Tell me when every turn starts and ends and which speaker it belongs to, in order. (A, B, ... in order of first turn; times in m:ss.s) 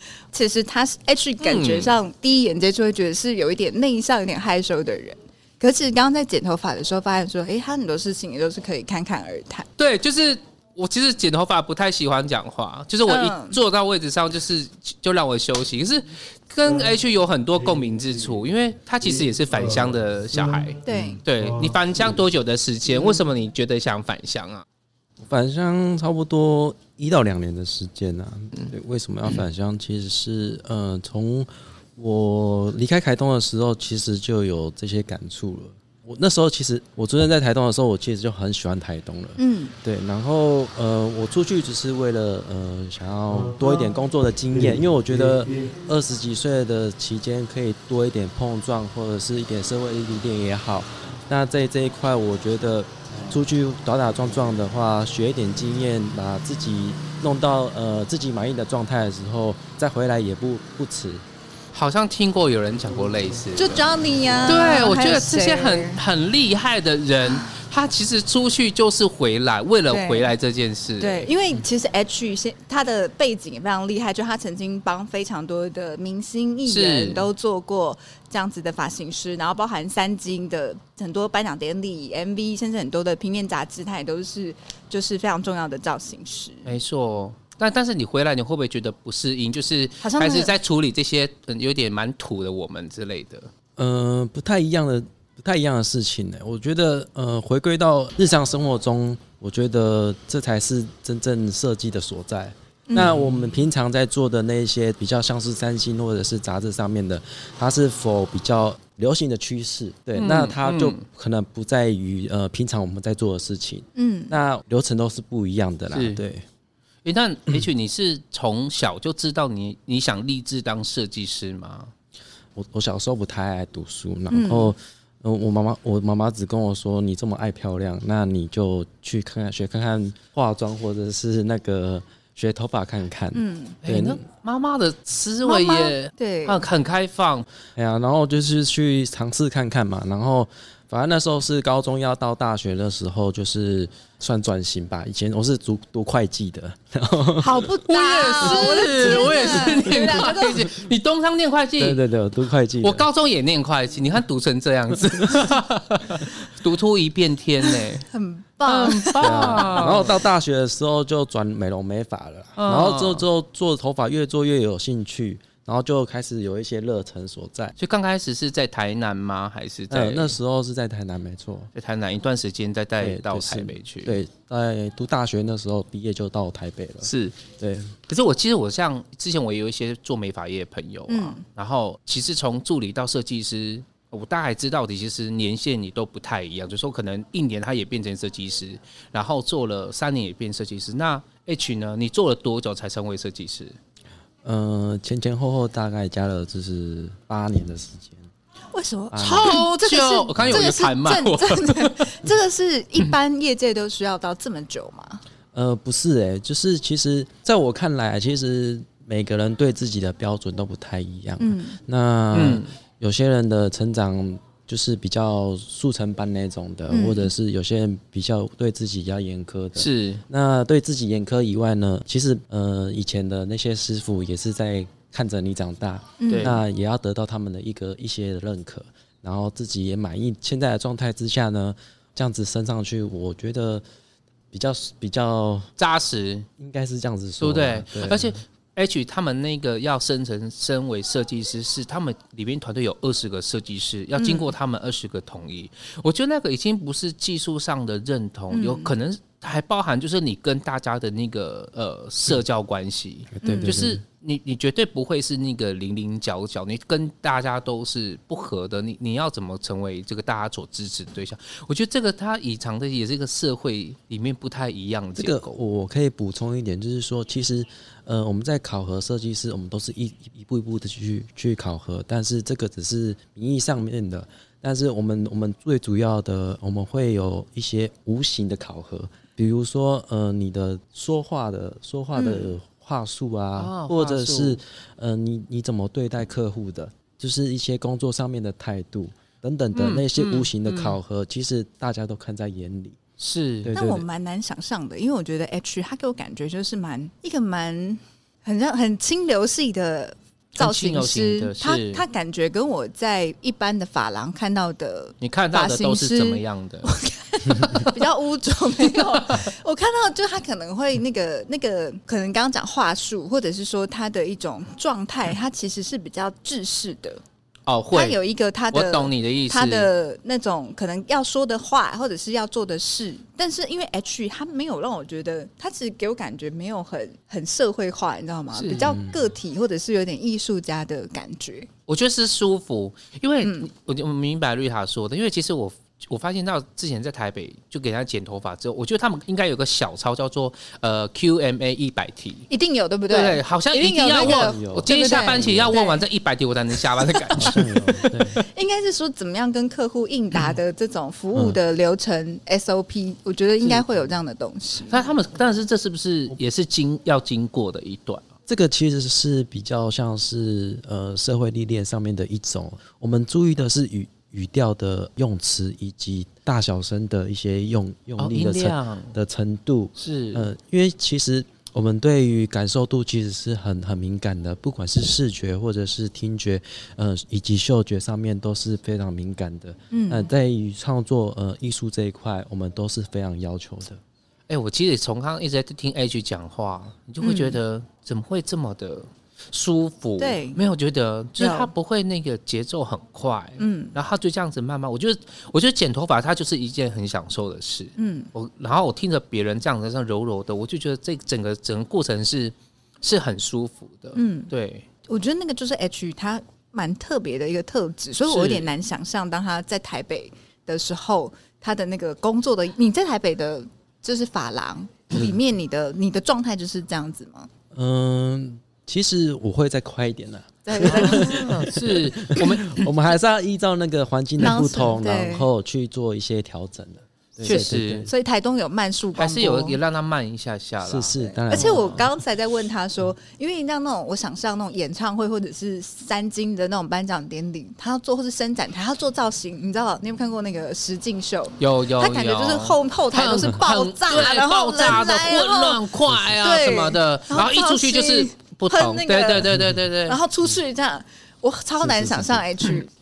0:00.3-0:09.7 A
0:01.4-0:01.9 B
0:09.8-0:24.6 B
0:13.0-0:13.6 A
0:20.8-0:21.2 A
0:22.9-0:23.2 A
0:25.2-1:01.2 C
0:39.4-0:39.7 A
1:01.7-1:03.8 B
1:03.6-1:06.0 A
1:04.5-1:11.3 B
1:09.9-1:10.3 A
1:11.0-1:26.7 A
1:16.7-1:17.3 B
1:26.6-1:33.5 B
1:30.0-1:30.5 A
1:33.8-1:56.4 C
1:42.9-1:43.2 A
1:50.2-1:51.0 B
1:54.0-1:54.4 A
1:55.9-1:56.2 B
1:57.0-2:01.9 B
2:02.5-2:14.2 C
2:04.3-2:04.7 A
2:13.3-2:13.8 A
2:13.8-2:17.4 B
2:15.4-2:16.6 A
2:17.8-2:27.7 C
2:27.4-2:30.7 A
2:27.8-2:32.0 B
2:31.8-2:33.0 C
2:32.8-2:38.0 B
2:34.9-2:35.5 C
2:38.0-2:39.9 A
2:38.6-2:40.2 B
2:39.2-2:47.8 C
2:42.6-2:43.2 B
2:47.8-2:50.4 B
2:49.9-2:51.7 C
2:51.8-2:54.2 B
2:53.0-2:58.0 C
2:57.0-2:57.4 B
2:58.1-3:13.8 B
3:01.1-3:01.4 A
3:14.4-3:18.2 C
3:18.7-3:25.2 A
3:19.1-3:19.6 C
3:19.2-3:22.0 B
3:20.4-3:20.7 C
3:25.5-3:53.8 C
3:31.4-3:31.8 A
3:32.3-3:32.7 B
3:36.9-3:37.3 A
3:39.8-3:40.2 B
3:46.2-3:46.6 A
3:46.3-3:46.6 B
3:54.5-3:55.7 C
3:55.8-3:56.5 B
3:56.6-3:58.4 C
3:57.4-4:25.6 B
4:04.2-4:04.5 A
4:08.5-4:08.9 A
4:13.3-4:14.0 C
4:13.4-4:13.7 A
4:25.2-4:53.0 C
4:42.1-4:42.5 A
4:43.6-4:44.6 B
4:49.7-4:51.0 B
4:53.2-4:53.8 B
4:53.6-4:54.0 C
4:53.7-5:17.2 A
5:00.6-5:02.0 B
5:05.2-5:06.9 B
5:09.0-5:09.4 B
5:17.6-5:18.2 B
5:17.9-5:31.7 A
5:18.7-5:19.9 B
5:28.5-5:29.0 B
5:28.8-5:29.2 C
5:31.9-5:42.5 B
5:33.4-5:33.7 A
5:42.5-5:46.0 A
5:43.1-5:47.6 B
5:44.2-5:45.8 C
5:47.0-5:55.0 A
5:47.4-5:48.4 C
5:54.9-5:58.2 B
5:58.5-6:24.0 C
6:08.2-6:09.2 B
6:10.0-6:10.5 B
6:19.9-6:20.3 A
6:24.5-6:44.8 B
6:27.2-6:27.6 A
6:30.2-6:30.6 A
6:31.4-6:31.7 A
6:33.6-6:34.0 A
6:38.0-6:38.3 A
6:44.1-6:44.5 A
6:45.1-6:57.5 A
6:48.3-6:48.7 B
6:57.7-7:08.1 C
7:00.6-7:01.7 A
7:00.8-7:02.9 B
7:04.4-7:05.5 A
7:07.4-7:08.1 B
7:07.4-7:09.8 A
7:09.2-7:12.0 B
7:10.8-7:12.0 C
7:11.5-7:25.8 A
7:21.6-7:30.2 B
7:26.4-7:29.5 A
7:30.0-7:32.9 A
7:31.8-7:32.5 C